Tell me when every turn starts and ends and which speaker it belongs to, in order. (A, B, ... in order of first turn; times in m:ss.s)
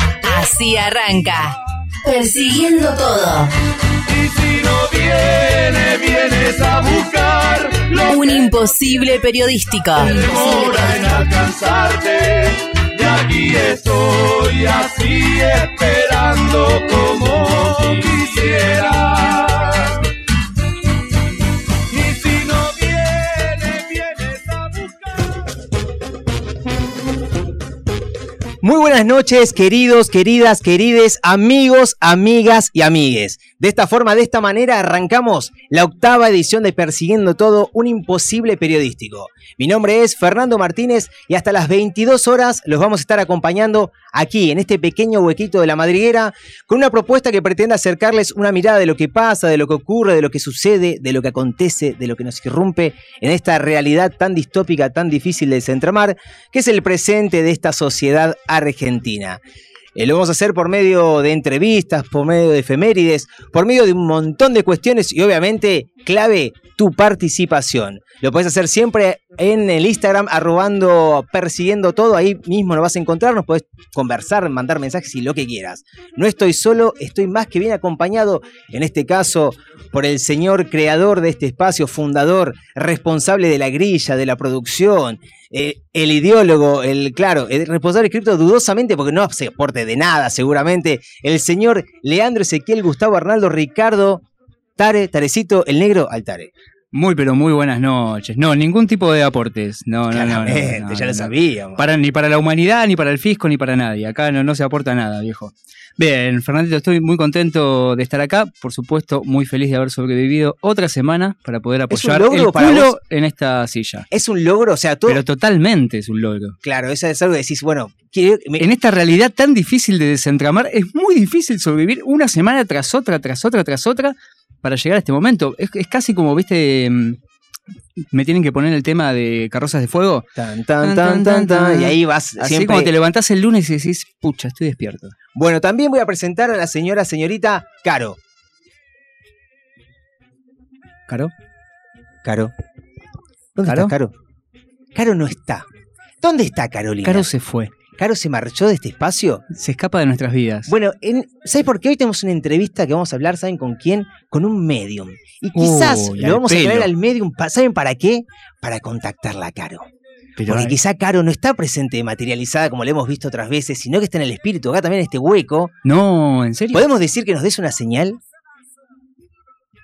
0:00.2-0:03.5 A
0:04.1-0:08.5 B
0:08.1-0:11.0 A
0:10.0-0:20.0 B
0:21.9-0:25.3 B
0:28.6-0:59.4 C
1:00.0-1:34.2 C
1:34.8-1:36.5 C
1:36.9-1:54.1 D
1:40.1-1:41.9 C
1:51.9-1:53.0 C
1:54.1-1:55.2 C
1:55.1-1:56.6 D
1:56.6-1:58.6 C
1:58.6-2:07.2 D
2:08.1-2:10.3 D
2:10.4-2:12.9 C
2:10.8-2:15.1 D
2:15.3-2:18.2 C
2:22.2-2:22.5 C
2:23.6-2:24.1 C
2:23.6-2:23.9 D
2:24.9-2:25.6 C
2:26.2-2:27.3 C
2:27.0-2:27.7 D
2:27.9-2:29.4 C
2:29.5-2:30.7 D
2:30.7-2:39.8 C
2:35.5-2:36.9 D
2:40.4-2:40.7 D
2:40.5-2:45.7 C
2:45.8-2:46.8 D
2:46.7-2:48.2 C